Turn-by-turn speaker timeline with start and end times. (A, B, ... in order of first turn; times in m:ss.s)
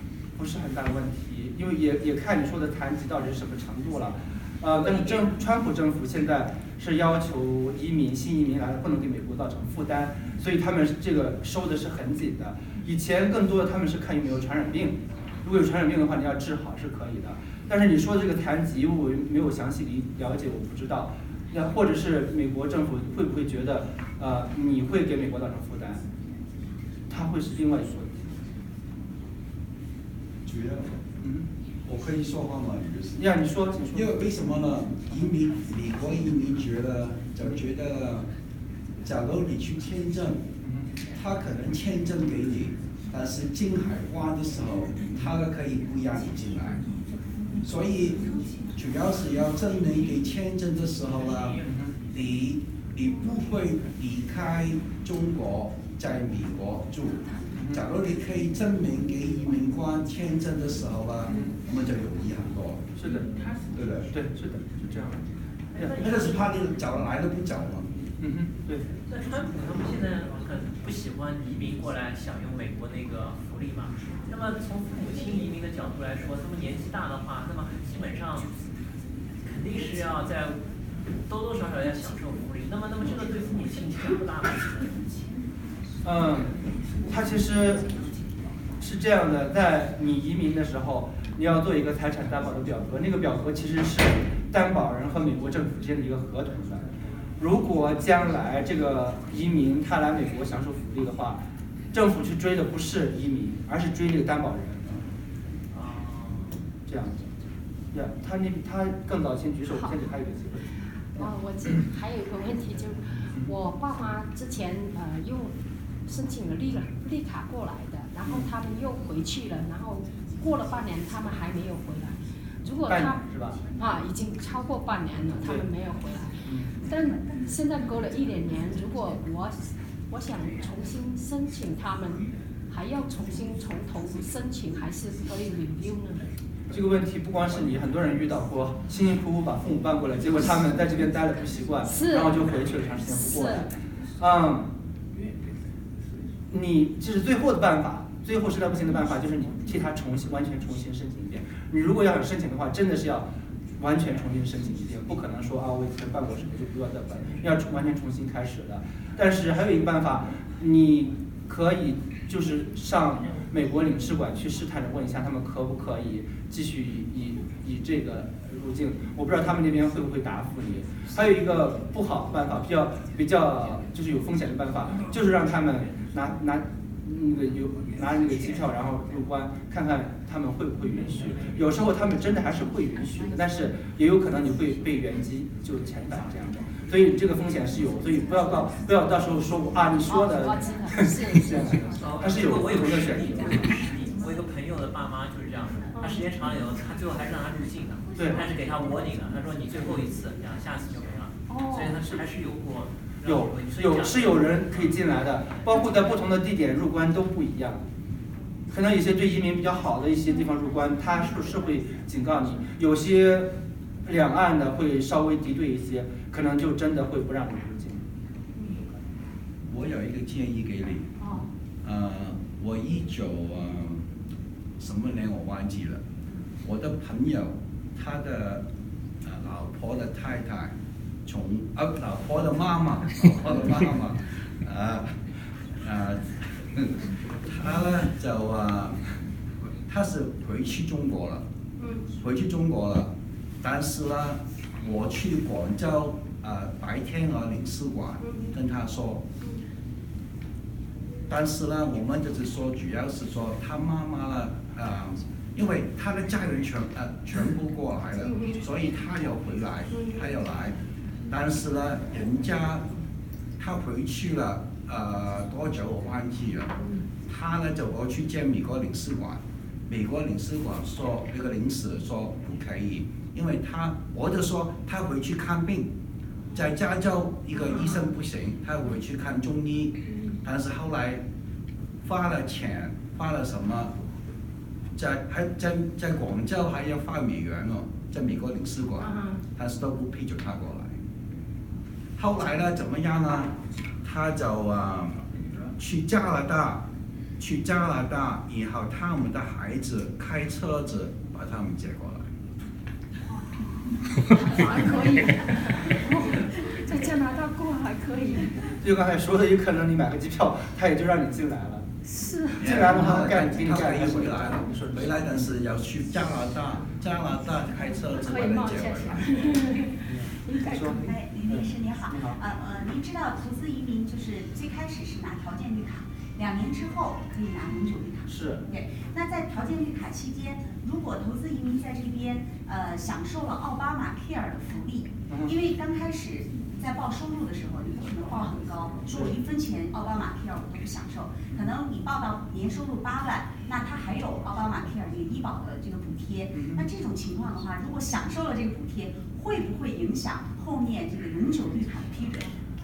0:00.3-0:26.0 A
0:27.1-0:28.4 A
0:30.4-0:31.0 B
0:31.2-0:31.5 A
0:31.8-0:33.3 B
0:33.2-0:34.2 A
0:33.9-0:38.3 B
0:39.0-0:40.5 B
0:40.6-0:40.9 A
0:41.1-0:46.9 B
0:47.6-1:02.9 B
0:51.6-0:51.9 A
0:57.5-0:57.8 A
1:02.9-1:03.4 A
1:03.7-1:04.1 B
1:04.0-1:06.1 A
1:05.8-1:06.3 C
1:05.9-1:07.9 B
1:08.2-1:08.9 A
1:09.0-1:18.6 C
1:19.4-1:25.1 C
1:26.0-1:28.0 A
1:28.8-1:45.0 A
1:45.7-1:46.7 C
1:46.8-1:47.4 A
1:47.9-1:51.3 A
1:51.1-1:55.5 D
1:53.2-1:53.5 A
1:56.0-2:03.2 D
1:58.2-1:58.5 A
2:02.9-2:03.6 A
2:03.7-2:16.3 D
2:05.4-2:05.7 A
2:06.4-2:06.7 A
2:16.7-2:24.7 A
2:21.8-2:23.7 D
2:26.5-3:13.8 A
3:10.0-3:11.9 D
3:11.9-3:25.8 C
3:18.2-3:18.5 A
3:21.5-3:21.9 D
3:23.2-3:27.8 A
3:28.7-3:38.1 A
3:38.6-3:38.9 A
3:39.7-3:41.1 B
3:41.8-3:44.0 B
3:44.8-3:46.0 B
3:46.6-3:48.6 B
3:49.2-3:50.7 B
3:51.2-3:55.2 B
3:55.8-3:59.1 B
3:59.8-4:01.4 B
4:01.8-4:02.1 D
4:02.1-4:09.2 B
4:08.2-4:08.5 D
4:11.3-4:20.8 B
4:18.2-4:18.6 D
4:21.3-4:22.9 B
4:23.6-4:26.7 B
4:27.2-4:35.9 B
4:36.5-4:41.2 B
4:42.0-4:44.0 B
4:45.0-4:51.0 B
4:49.0-4:49.4 D
4:52.2-4:56.8 B
4:57.4-5:02.3 B
5:04.3-5:08.6 D
5:08.8-5:11.8 A
5:12.0-5:12.7 D
5:12.6-5:19.4 B
5:12.6-5:15.4 A
5:18.0-5:20.9 D
5:20.0-5:22.4 A
5:20.7-5:52.5 E
5:28.3-5:28.6 A
5:35.3-5:35.5 A
5:39.1-5:39.4 A
5:46.5-5:46.8 A